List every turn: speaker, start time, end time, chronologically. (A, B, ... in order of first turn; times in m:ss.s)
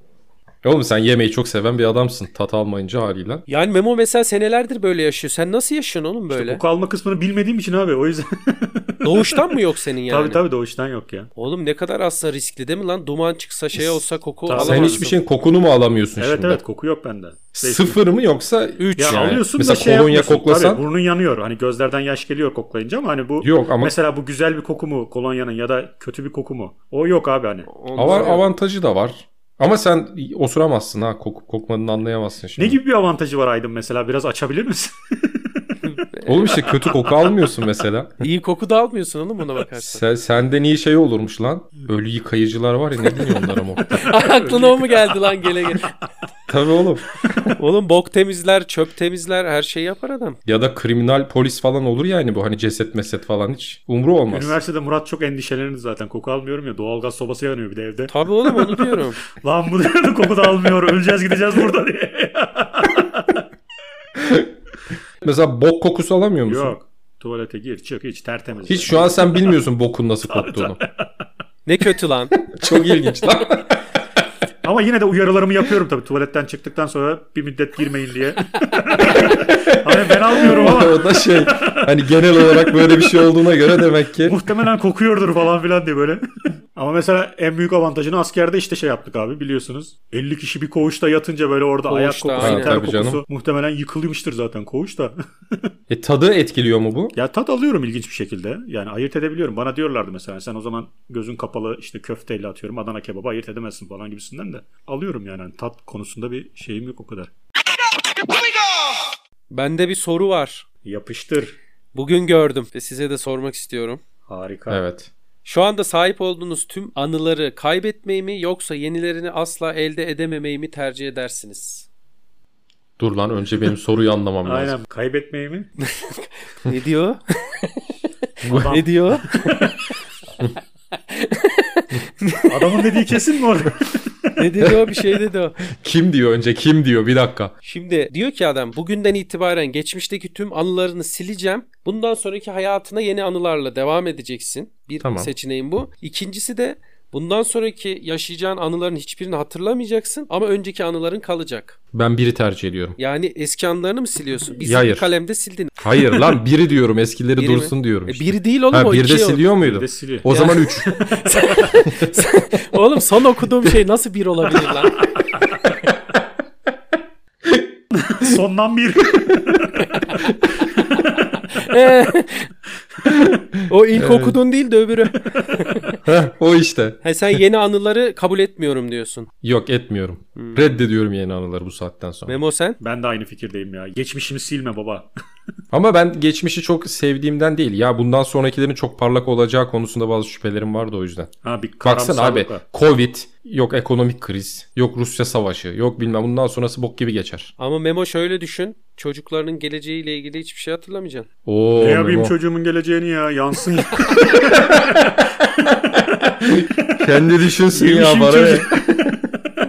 0:00.6-0:03.4 A
0:03.5-0:06.6 B
0:06.3-0:09.5 C
0:09.0-0:10.4 B
0:10.1-0:11.3 C
0:11.4-0:15.2 B
0:14.4-0:15.0 C
0:14.6-0:16.6 A
0:16.2-0:18.0 C
0:17.5-0:20.8 A
0:18.8-0:19.3 B
0:19.0-0:28.2 C
0:23.4-0:23.9 A
0:27.7-0:28.4 B
0:27.9-0:32.8 A
0:32.6-0:35.7 C
0:35.8-0:36.7 B
0:36.2-0:38.1 A
0:38.2-0:40.0 B
0:39.8-0:44.1 A
0:43.9-0:45.9 B
0:44.0-0:45.2 C
0:46.5-0:47.5 A
0:47.5-0:50.4 B
0:50.4-0:54.6 A
0:54.3-1:03.4 C
0:58.1-0:59.2 B
1:04.2-1:04.5 A
1:05.2-1:06.7 A
1:06.4-1:09.5 C
1:08.6-1:10.8 A
1:10.3-1:11.0 C
1:11.6-1:12.4 B
1:12.4-1:13.8 A
1:14.6-1:21.9 C
1:19.0-1:24.4 A
1:24.2-1:26.2 C
1:26.7-1:35.2 C
1:31.9-1:32.8 B
1:32.4-1:33.2 A
1:35.9-1:37.1 A
1:37.1-1:47.3 C
1:49.5-1:50.6 B
1:50.8-1:51.6 C
1:51.9-1:54.0 B
1:54.3-1:54.8 C
1:54.7-1:55.1 A
1:55.4-2:01.9 B
2:03.0-2:04.7 A
2:04.4-2:05.7 C
2:05.8-2:07.8 B
2:08.4-2:08.8 A
2:08.5-2:09.8 C
2:08.5-2:09.7 B
2:10.9-2:12.8 B
2:12.5-2:14.3 C
2:14.4-2:15.6 B
2:15.7-2:17.5 A
2:17.6-2:31.8 B
2:25.0-2:25.3 A
2:31.9-2:33.0 A
2:33.0-2:36.2 B
2:34.6-2:35.1 A
2:35.8-2:40.9 A
2:37.4-2:39.4 B
2:39.6-2:40.3 C
2:40.3-2:45.1 B
2:40.8-2:41.5 C
2:47.9-2:50.0 C
2:49.8-2:50.2 B
2:50.2-2:50.6 A
2:50.8-2:52.5 B
2:53.0-2:54.4 A
2:53.7-2:56.0 B
2:56.0-2:57.0 A
2:57.0-2:59.3 B
2:59.4-3:02.4 A
3:00.4-3:00.8 B
3:02.3-3:02.8 B
3:02.8-3:05.1 C
3:05.7-3:11.3 A
3:11.4-3:12.6 C
3:11.8-3:17.5 A
3:17.6-3:21.3 B
3:21.4-3:22.3 A
3:21.7-3:24.8 C
3:24.2-3:24.9 A
3:26.4-3:29.2 A
3:27.7-3:28.7 C